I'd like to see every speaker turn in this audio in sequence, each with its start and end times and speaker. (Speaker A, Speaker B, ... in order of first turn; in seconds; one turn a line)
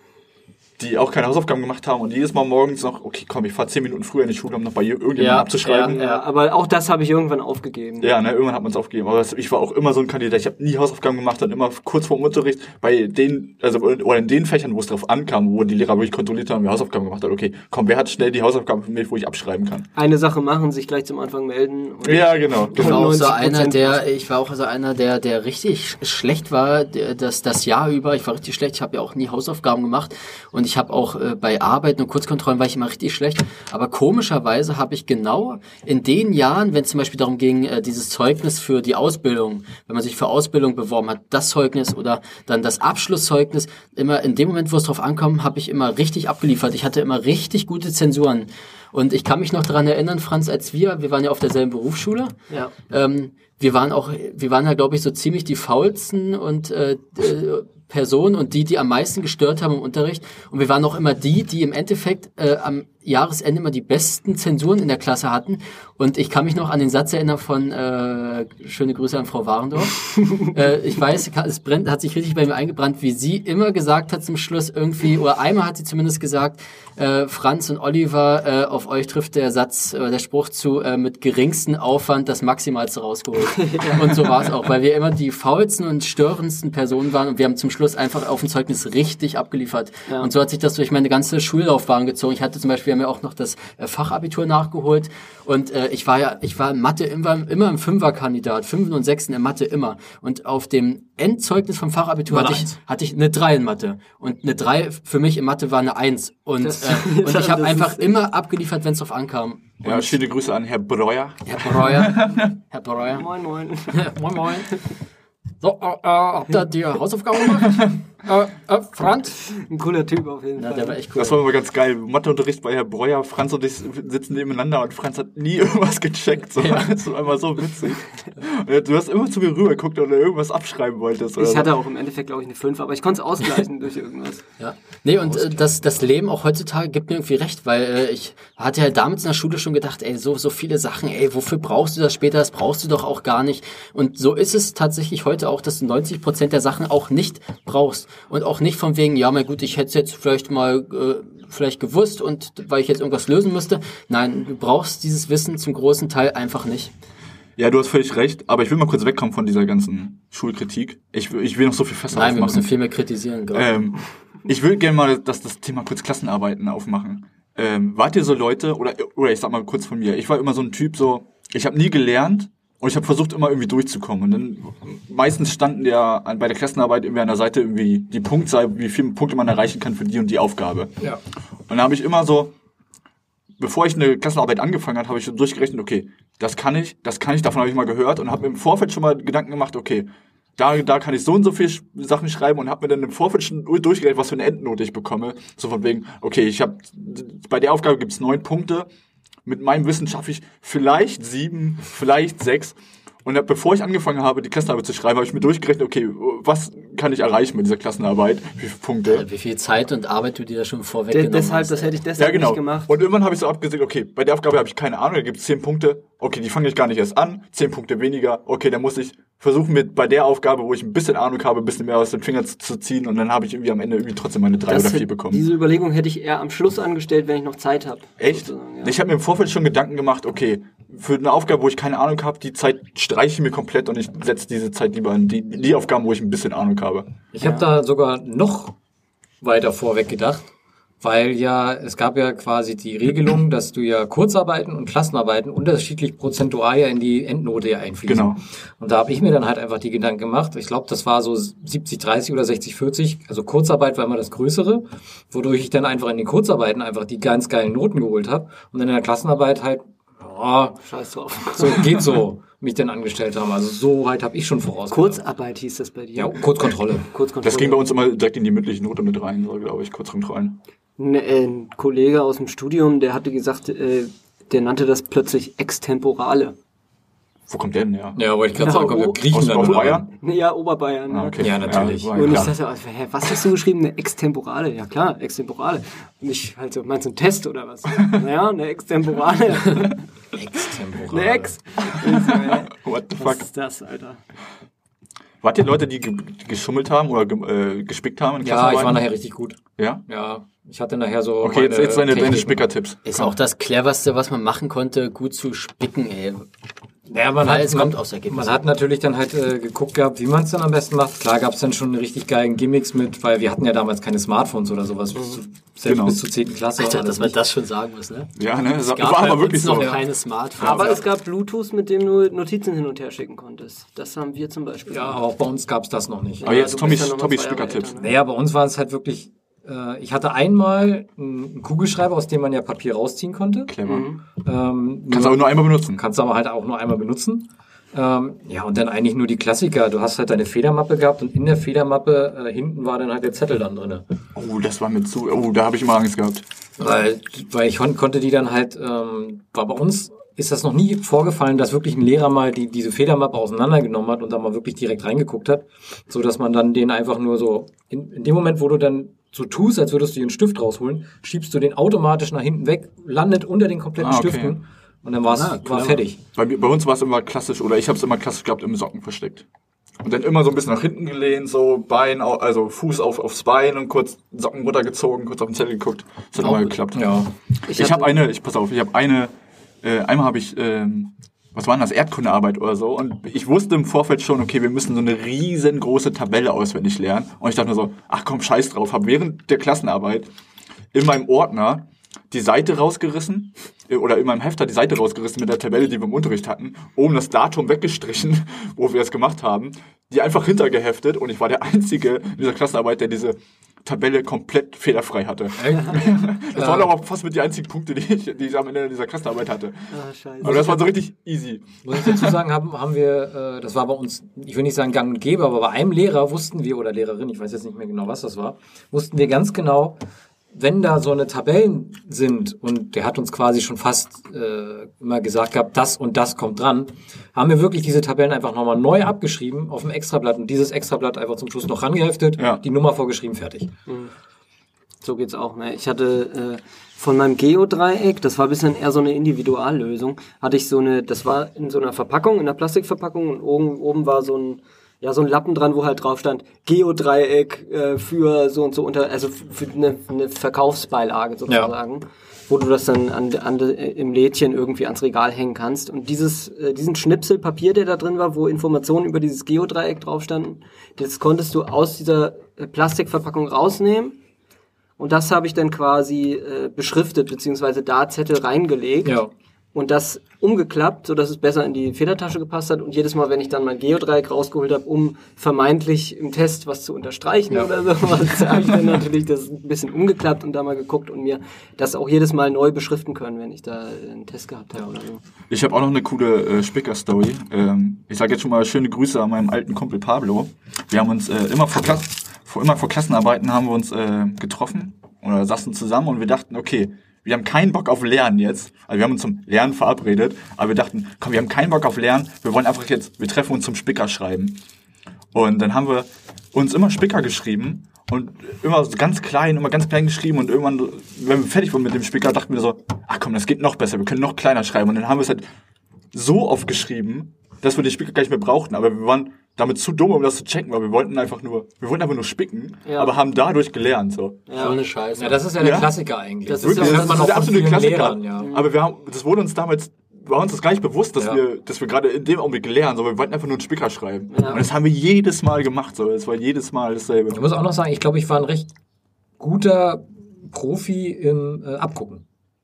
Speaker A: 0.8-6.0
Speaker B: 5.2-6.2
Speaker C: 5.7-8.1
Speaker A: 8.0-19.9
Speaker C: 19.9-24.1
Speaker A: 22.0-23.1
Speaker B: 22.7-52.3
Speaker B: 52.9-110.2
Speaker C: 83.5-84.2
Speaker D: 102.3-102.8
Speaker C: 106.6-108.1
Speaker A: 109.8-112.5
Speaker B: 111.4-113.2
Speaker C: 113.1-114.1
Speaker B: 113.9-114.8
Speaker B: 115.6-119.4
Speaker C: 119.4-121.0
Speaker B: 120.6-121.4
Speaker A: 121.2-131.7
Speaker C: 131.4-134.4
Speaker B: 134.6-156.9
Speaker A: 157.6-162.7
Speaker B: 162.1-163.8
Speaker A: 163.5-180.9
Speaker A: 181.7-182.5
Speaker A: 183.6-198.9
Speaker A: 199.4-209.2
Speaker B: 209.1-211.9
Speaker C: 211.1-212.9
Speaker A: 212.2-225.4
Speaker C: 224.7-228.9
Speaker A: 228.2-237.1
Speaker D: 237.3-238.8
Speaker C: 237.4-237.7
Speaker D: 239.4-240.5
Speaker D: 241.0-260.8
Speaker A: 248.1-248.4
Speaker C: 260.8-262.1
Speaker D: 261.5-265.2
Speaker C: 264.9-267.9
Speaker D: 266.1-267.1
Speaker A: 267.4-270.6
Speaker C: 271.0-276.6
Speaker A: 277.5-278.2
Speaker D: 278.1-280.0
Speaker C: 278.5-279.3
Speaker A: 279.3-280.1
Speaker C: 280.2-290.0
Speaker A: 281.1-282.5
Speaker D: 281.4-282.5
Speaker D: 290.3-291.5
Speaker C: 291.1-294.2
Speaker A: 291.9-293.4
Speaker A: 295.4-299.1
Speaker D: 298.4-302.6
Speaker A: 299.8-300.0
Speaker A: 301.4-303.0
Speaker B: 303.0-306.4
Speaker D: 307.1-317.4
Speaker B: 307.4-308.6
Speaker A: 315.8-316.2
Speaker B: 316.8-321.0
Speaker A: 318.4-320.0
Speaker D: 319.7-320.0
Speaker C: 320.6-325.2
Speaker A: 320.6-320.9
Speaker D: 324.9-326.5
Speaker C: 326.4-328.1
Speaker A: 326.4-328.0
Speaker D: 328.0-333.7
Speaker A: 333.7-334.1
Speaker C: 333.9-334.2
Speaker D: 334.4-344.1
Speaker A: 335.1-336.0
Speaker A: 344.3-346.4
Speaker D: 346.8-366.2
Speaker A: 364.0-364.6
Speaker B: 365.3-366.0
Speaker A: 366.3-369.4
Speaker A: 370.0-390.3
Speaker D: 376.9-377.3
Speaker C: 377.7-378.2
Speaker A: 390.9-409.9
Speaker D: 405.6-406.9
Speaker C: 409.9-410.9
Speaker A: 410.4-412.4
Speaker D: 411.8-420.0
Speaker D: 420.5-433.7
Speaker A: 432.4-432.6
Speaker C: 433.9-434.1
Speaker C: 435.0-464.2
Speaker D: 451.5-451.7
Speaker C: 465.0-469.2
Speaker D: 469.0-469.3
Speaker C: 469.7-485.2
Speaker A: 485.5-504.6
Speaker A: 505.3-515.4
Speaker A: 516.1-524.4
Speaker C: 522.9-523.1
Speaker C: 524.5-524.8
Speaker B: 524.5-525.5
Speaker D: 525.2-528.5
Speaker A: 525.6-525.9
Speaker B: 526.5-527.1
Speaker A: 526.6-537.4
Speaker C: 526.7-527.0
Speaker C: 528.4-528.7
Speaker C: 534.3-534.6
Speaker D: 537.3-538.7
Speaker D: 539.4-542.2